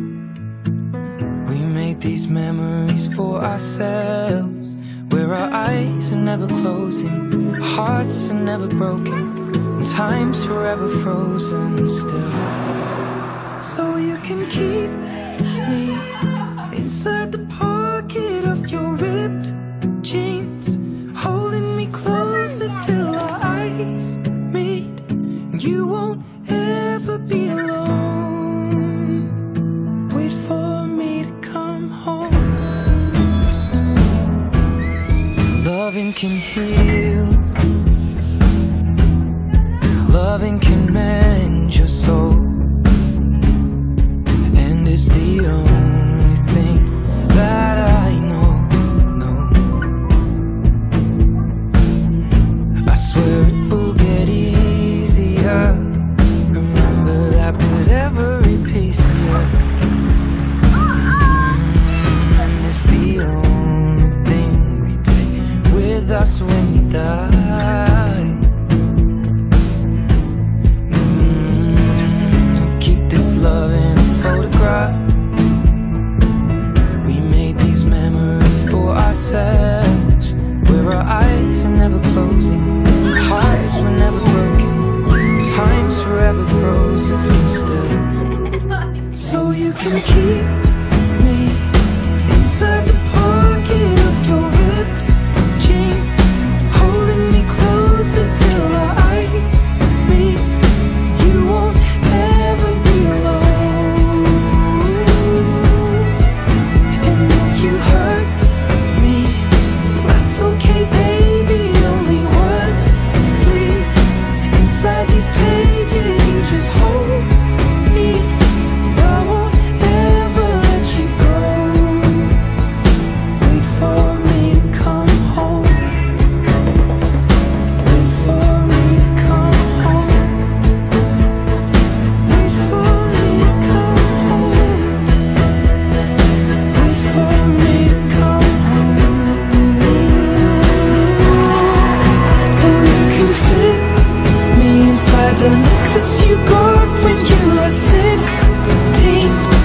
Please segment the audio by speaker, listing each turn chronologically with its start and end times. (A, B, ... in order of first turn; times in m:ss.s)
0:01.4-0:12.4 A
0:13.6-0:15.0 A
0:15.6-0:16.1 A
0:16.7-0:29.3 A
0:30.1-0:32.5 A
0:35.6-0:37.4 A
0:40.0-0:42.6 A
0:44.5-0:49.6 A
0:52.8-0:59.6 A
1:00.9-1:08.5 A
1:10.9-1:15.0 A
1:17.0-1:28.1 A
1:29.1-1:31.7 A
1:32.2-1:40.5 A
1:41.1-1:46.1 A
1:47.0-1:54.0 A
1:54.5-1:57.3 A
1:57.8-2:02.4 A
2:03.4-2:06.0 A
2:07.8-2:10.4 A
2:12.2-2:15.1 A
2:16.7-2:22.0 A
2:22.6-2:29.5 A